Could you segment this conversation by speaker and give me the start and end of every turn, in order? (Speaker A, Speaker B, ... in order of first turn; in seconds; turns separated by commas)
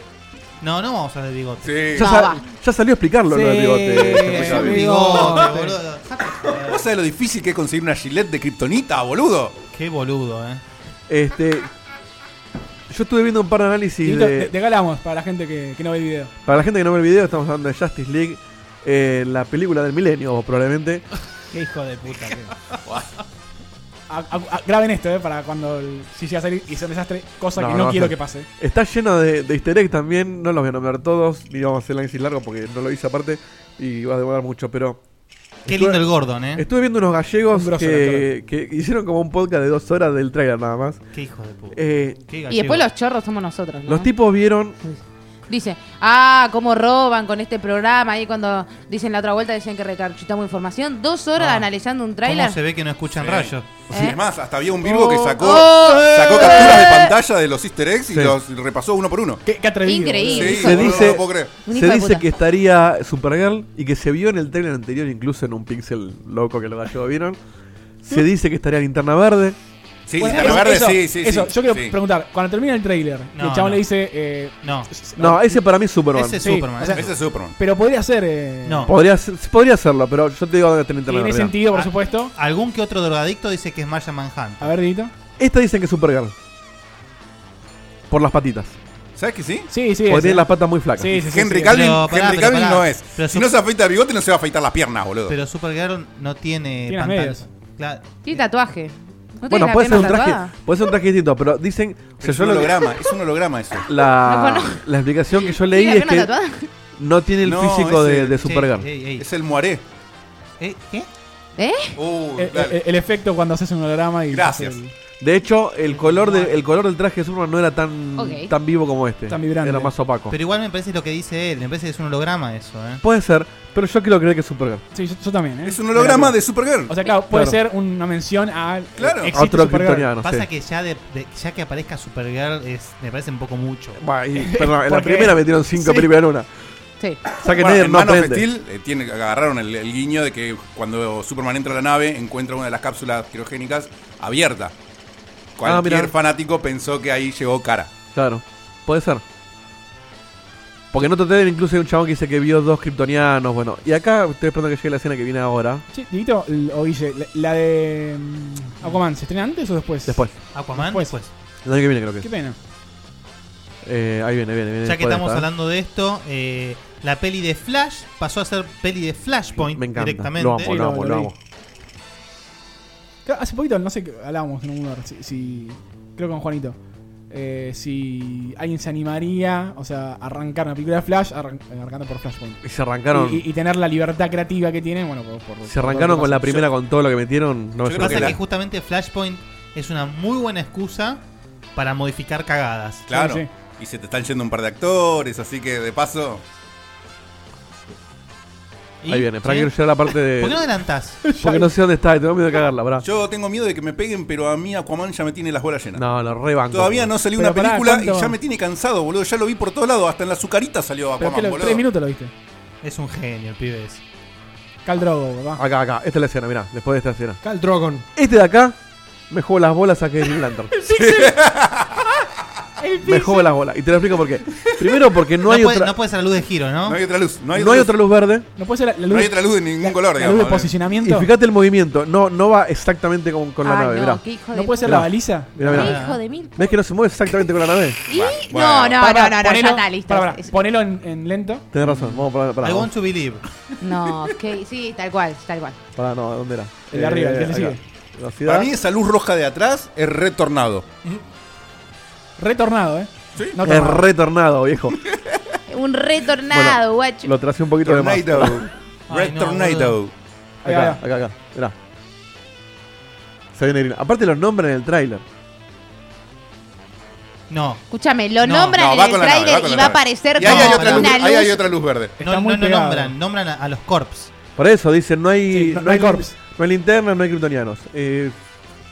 Speaker A: 0.6-1.8, Speaker B: 1.6-2.1, Speaker C: 1.9-4.8, Speaker D: 2.0-2.4, Speaker E: 3.3-5.7, Speaker B: 4.3-4.8, Speaker A: 4.6-6.8, Speaker B: 6.5-9.6, Speaker A: 9.7-10.6, Speaker C: 11.1-11.7, Speaker C: 12.9-14.5, Speaker F: 14.0-16.3, Speaker C: 16.5-21.0, Speaker E: 21.5-22.6, Speaker F: 24.1-28.5, Speaker C: 27.6-35.0, Speaker C: 35.6-36.0, Speaker A: 35.7-36.6, Speaker C: 36.5-41.0, Speaker F: 37.5-38.3, Speaker A: 41.1-42.9, Speaker C: 41.7-42.2, Speaker D: 42.5-44.1, Speaker C: 43.9-44.8, Speaker D: 44.8-52.6, Speaker A: 51.4-51.7, Speaker A: 52.2-53.7, Speaker B: 53.1-59.4, Speaker D: 53.9-54.2, Speaker D: 54.8-57.2, Speaker C: 58.1-58.4, Speaker F: 59.5-60.8, Speaker D: 59.8-62.2, Speaker B: 60.3-61.6, Speaker C: 60.6-67.4, Speaker C: 68.0-69.6, Speaker B: 70.1-72.0, Speaker F: 70.2-75.7, Speaker A: 70.2-70.7, Speaker A: 73.4-73.8, Speaker A: 74.6-74.9, Speaker C: 75.2-76.4, Speaker A: 76.1-77.1, Speaker F: 76.4-78.9, Speaker B: 76.9-77.5, Speaker A: 78.7-78.9, Speaker C: 78.9-81.5, Speaker F: 81.1-82.3, Speaker A: 81.7-84.7, Speaker F: 84.6-85.1, Speaker C: 85.4-86.3, Speaker C: 88.1-88.8, Speaker B: 89.2-89.7, Speaker F: 89.7-91.8, Speaker C: 90.1-91.2, Speaker B: 91.2-95.3, Speaker A: 91.7-93.5, Speaker A: 95.3-98.4, Speaker F: 96.9-97.4, Speaker D: 98.2-100.5, Speaker C: 99.5-102.9, Speaker B: 102.2-103.9, Speaker C: 103.9-106.3, Speaker D: 104.2-104.8, Speaker D: 105.5-106.7, Speaker C: 107.0-108.9, Speaker B: 107.4-108.5, Speaker A: 108.4-109.2, Speaker B: 109.2-109.8, Speaker A: 110.6-111.1, Speaker D: 111.6-112.0, Speaker B: 112.0-112.8, Speaker F: 112.4-114.9, Speaker B: 114.3-114.8, Speaker C: 115.2-120.3, Speaker F: 116.1-116.4, Speaker D: 118.2-118.5, Speaker F: 119.3-119.9, Speaker A: 120.3-123.0, Speaker C: 123.0-124.8, Speaker F: 124.9-130.1, Speaker B: 125.6-127.0, Speaker C: 127.3-127.6, Speaker B: 129.0-129.3, Speaker C: 129.3-130.5, Speaker A: 130.2-134.0, Speaker C: 134.0-136.5, Speaker F: 134.4-136.1, Speaker C: 137.4-138.5, Speaker B: 137.5-144.7, Speaker B: 145.6-147.9, Speaker C: 145.6-146.1, Speaker C: 148.1-149.2, Speaker C: 150.9-155.8, Speaker F: 155.9-161.1, Speaker C: 160.1-160.3, Speaker A: 160.5-161.3, Speaker C: 161.7-162.3, Speaker F: 162.2-162.6, Speaker C: 163.8-165.5, Speaker A: 164.8-170.7, Speaker C: 169.6-171.3, Speaker F: 170.6-171.3, Speaker F: 173.3-176.8, Speaker F: 177.3-186.7, Speaker C: 182.6-183.4, Speaker C: 185.7-188.3, Speaker B: 187.8-188.4, Speaker A: 188.0-191.2, Speaker A: 191.8-193.1, Speaker B: 193.1-196.4, Speaker F: 193.1-193.5, Speaker A: 199.0-201.2, Speaker C: 199.1-200.7, Speaker F: 201.2-201.7, Speaker C: 201.4-203.1, Speaker B: 203.0-206.1, Speaker C: 206.0-207.1, Speaker B: 206.7-211.8, Speaker F: 207.4-208.4, Speaker F: 211.2-212.3, Speaker A: 212.8-214.0, Speaker F: 214.8-215.6, Speaker C: 215.6-217.4, Speaker E: 217.4-218.1, Speaker C: 218.2-218.8, Speaker C: 219.3-220.7, Speaker B: 220.9-222.1, Speaker F: 222.8-223.3, Speaker C: 223.0-225.9, Speaker A: 225.4-227.0, Speaker B: 226.8-227.9, Speaker C: 227.5-228.4, Speaker F: 228.6-231.3, Speaker B: 229.1-230.8, Speaker C: 231.0-234.2, Speaker D: 233.6-235.2, Speaker F: 234.5-235.9, Speaker C: 234.8-236.0, Speaker D: 235.7-236.7, Speaker A: 235.7-236.2, Speaker C: 236.6-238.0, Speaker D: 238.1-240.5, Speaker B: 238.1-239.0, Speaker F: 239.0-241.7, Speaker C: 241.7-242.9, Speaker A: 242.6-243.4, Speaker D: 243.8-245.8, Speaker C: 246.0-248.7, Speaker F: 246.9-247.8, Speaker B: 248.4-251.2, Speaker F: 252.4-254.1, Speaker C: 253.6-255.0, Speaker D: 255.7-257.3, Speaker C: 256.5-258.7, Speaker B: 257.8-260.1, Speaker A: 259.1-260.0, Speaker F: 260.6-261.0, Speaker C: 260.6-261.8, Speaker C: 263.6-265.2, Speaker A: 267.5-267.8, Speaker D: 267.9-271.7, Speaker B: 268.4-272.1, Speaker A: 270.4-271.2, Speaker F: 272.2-273.1, Speaker A: 272.2-274.3, Speaker C: 274.6-278.4, Speaker F: 275.5-276.3